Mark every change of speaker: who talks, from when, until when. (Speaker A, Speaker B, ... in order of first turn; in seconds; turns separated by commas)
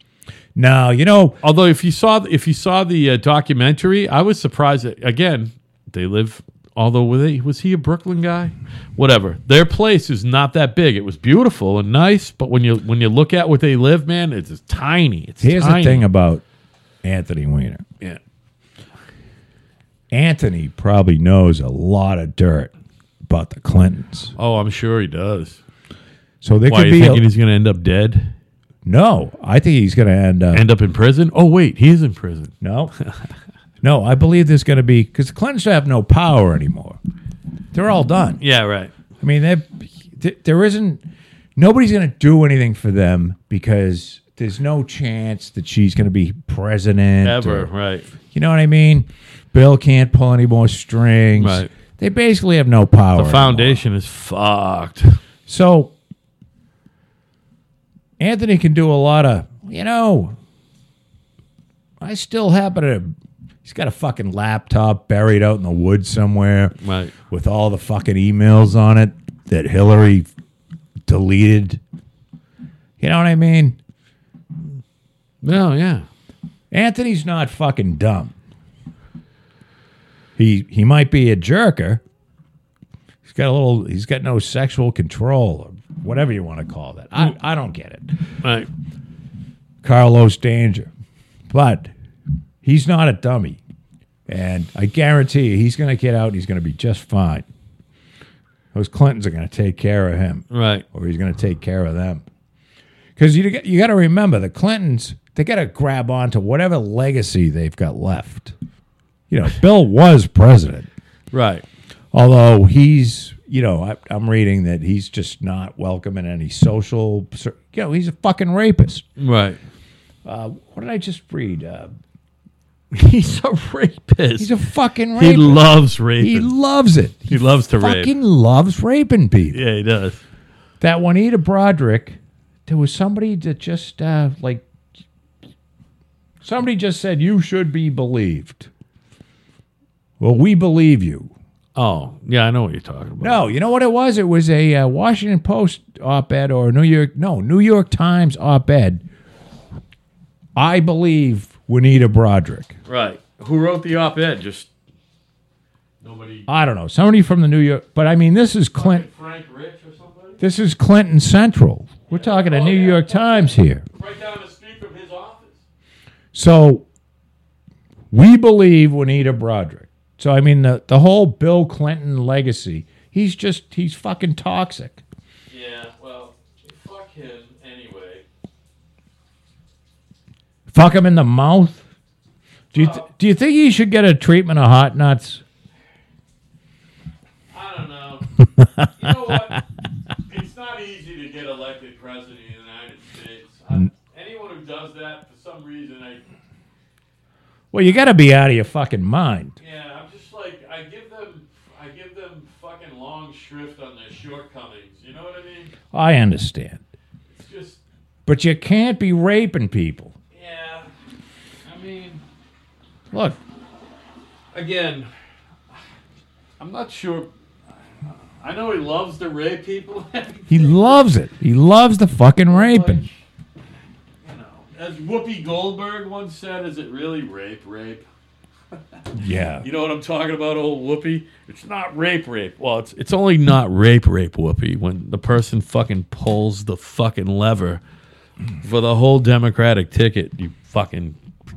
Speaker A: 0.6-1.4, Speaker B: 1.4-16.1, Speaker A: 15.4-16.4, Speaker A: 17.0-17.8, Speaker A: 20.1-22.7, Speaker A: 23.3-24.3, Speaker B: 24.4-25.6, Speaker A: 26.4-27.2, Speaker B: 26.7-28.3, Speaker A: 28.9-30.6, Speaker B: 30.5-33.1, Speaker A: 32.6-32.9, Speaker A: 33.8-37.0, Speaker A: 37.7-38.4, Speaker B: 38.4-38.9, Speaker A: 39.2-41.0, Speaker A: 41.6-47.7, Speaker B: 47.2-48.1, Speaker A: 48.3-53.8, Speaker B: 51.4-51.7, Speaker B: 53.1-55.2, Speaker A: 55.5-55.9, Speaker A: 58.2-60.4, Speaker A: 62.0-63.1, Speaker A: 63.6-66.8, Speaker B: 66.8-67.1, Speaker A: 67.3-70.3, Speaker A: 71.1-71.8, Speaker A: 73.0-73.8, Speaker B: 75.4-76.1, Speaker A: 76.7-78.4, Speaker A: 80.4-82.0, Speaker A: 83.3-88.1, Speaker B: 88.4-88.7, Speaker A: 89.8-90.9, Speaker A: 91.5-91.9, Speaker A: 92.6-93.6, Speaker A: 94.3-97.5, Speaker A: 98.7-102.2, Speaker B: 100.5-100.8, Speaker A: 103.2-108.5, Speaker A: 109.3-110.9, Speaker B: 111.3-111.6, Speaker A: 112.1-119.0, Speaker B: 119.2-119.6, Speaker A: 120.2-121.9, Speaker B: 122.9-124.5, Speaker A: 124.4-129.6, Speaker B: 125.1-126.5, Speaker B: 127.3-128.1, Speaker B: 129.5-130.2, Speaker A: 130.8-134.7, Speaker A: 136.4-138.7, Speaker A: 140.2-141.3, Speaker B: 141.8-143.5, Speaker A: 143.2-149.0, Speaker A: 150.6-152.8, Speaker B: 152.9-154.7, Speaker B: 156.0-156.5, Speaker A: 156.5-159.1, Speaker B: 158.7-160.4, Speaker A: 160.4-163.8, Speaker B: 162.1-165.7, Speaker A: 166.3-166.8, Speaker A: 168.1-175.0, Speaker B: 175.5-178.2, Speaker A: 180.7-181.9, Speaker B: 182.7-183.1, Speaker A: 182.7-185.4, Speaker B: 187.5-189.6, Speaker A: 188.6-189.3, Speaker B: 190.2-196.3, Speaker A: 197.7-199.6, Speaker B: 199.6-205.7, Speaker A: 205.9-206.8, Speaker B: 207.3-207.8, Speaker A: 208.3-210.2, Speaker B: 210.3-210.9, Speaker B: 211.7-212.2, Speaker A: 213.1-213.4, Speaker B: 214.5-215.1, Speaker B: 216.6-217.3, Speaker B: 218.0-221.0, Speaker A: 220.5-223.0, Speaker B: 222.5-223.2, Speaker B: 224.2-228.1, Speaker A: 229.1-229.7, Speaker B: 229.6-237.8, Speaker B: 238.6-241.2